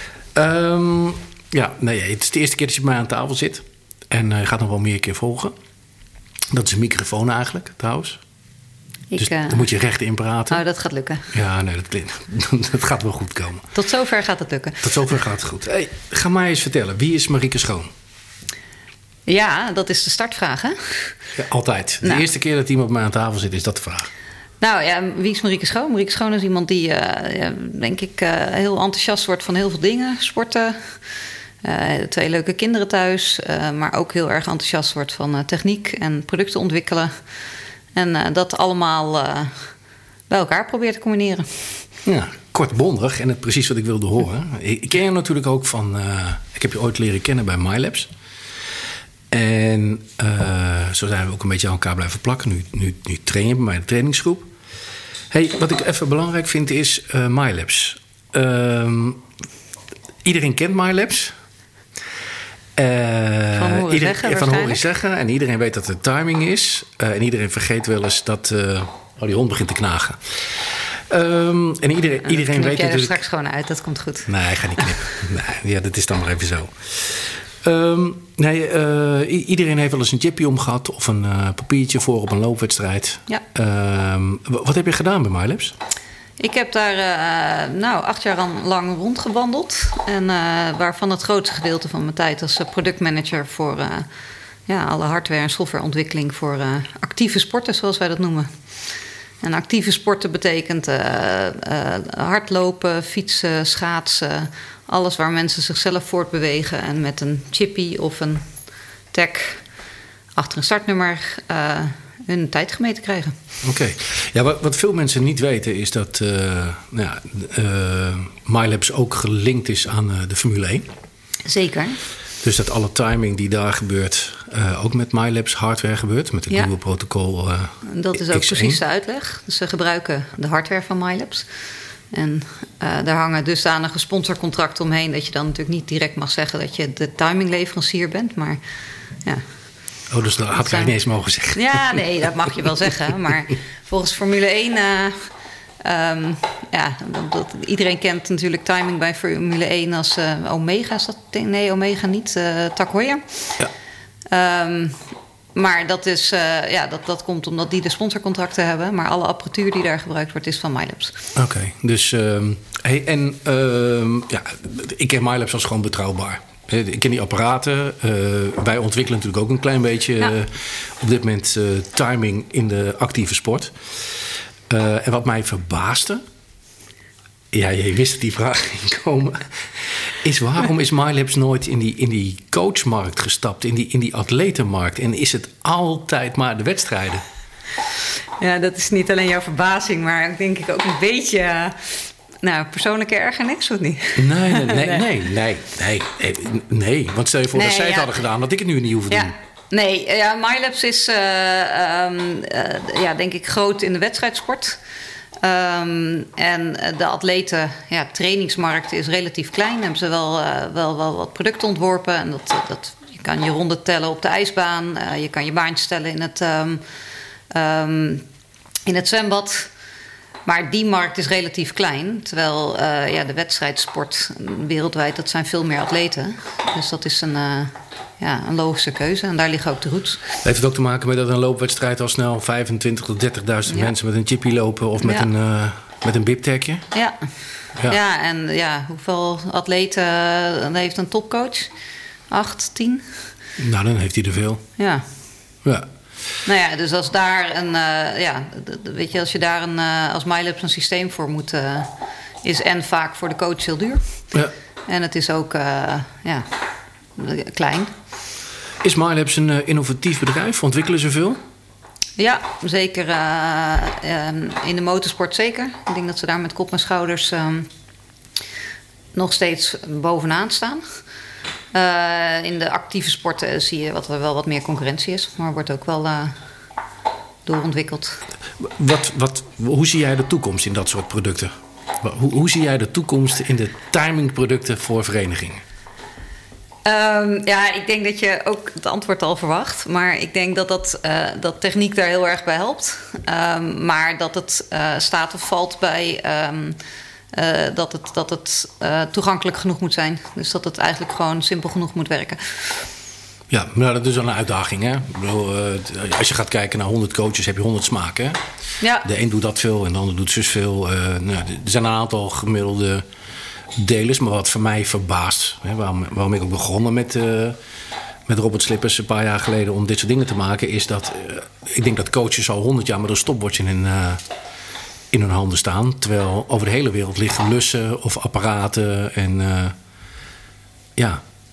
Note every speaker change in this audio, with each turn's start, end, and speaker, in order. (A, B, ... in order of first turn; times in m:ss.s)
0:00.3-0:05.5 A
0:06.5-0:08.2 A
0:09.1-0:09.7 B
0:09.2-0:10.6 A
0:10.5-0:11.3 B
0:11.3-0:13.7 A
0:13.7-0:14.9 B
0:14.8-0:17.9 A
0:19.2-0:21.2 B
0:21.4-0:24.1 A
0:24.6-0:31.0 B
0:31.6-0:37.1 B
0:37.9-0:39.7 B
0:40.3-0:41.8 B
0:42.0-0:48.1 A
0:49.3-0:54.5 A
0:55.3-0:59.2 A
1:00.2-1:01.3 A
1:02.8-1:13.2 A
1:03.6-1:04.8 B
1:12.3-1:15.1 B
1:14.3-1:25.7 A
1:26.4-1:34.1 B
1:34.7-1:38.8 B
1:39.4-1:48.4 B
1:49.1-1:49.6 B
1:50.3-1:53.3 B
1:53.6-2:00.8 A
2:01.4-2:02.0 B
2:02.4-2:08.8 A
2:07.8-2:11.5 B
2:12.1-2:18.6 B
2:20.1-2:22.1 A
2:20.5-2:20.9 B
2:21.5-2:25.1 B
2:25.8-2:33.6 B
2:34.3-2:41.2 B
2:41.4-2:53.7 A
2:54.7-2:56.2 A
2:57.5-3:07.2 A
3:08.4-3:15.1 B
3:14.2-3:19.3 A
3:17.5-3:18.2 B
3:19.1-3:24.8 B
3:25.4-3:36.8 B
3:37.5-3:38.2 B
3:38.8-3:39.7 B
3:40.4-3:50.4 B
3:50.4-3:56.9 A
3:53.7-3:53.9 B
3:55.0-3:55.3 B
3:57.8-4:01.7 B
4:02.3-4:03.2 B
4:03.6-4:04.6 A
4:04.8-4:05.0 B
4:06.4-4:11.9 B
4:12.4-4:14.0 B
4:14.9-4:16.5 B
4:17.2-4:17.9 B
4:18.8-4:21.4 A
4:22.2-4:27.7 B
4:29.1-4:30.8 B
4:31.7-4:36.3 B
4:37.4-4:38.2 B
4:38.6-4:45.6 A
4:46.8-4:56.8 B
4:57.3-5:02.9 B
5:03.5-5:08.4 A
5:08.8-5:09.0 B
5:09.0-5:13.0 A
5:13.8-5:17.6 A
5:18.3-5:24.2 A
5:25.1-5:29.7 A
5:31.0-5:31.2 A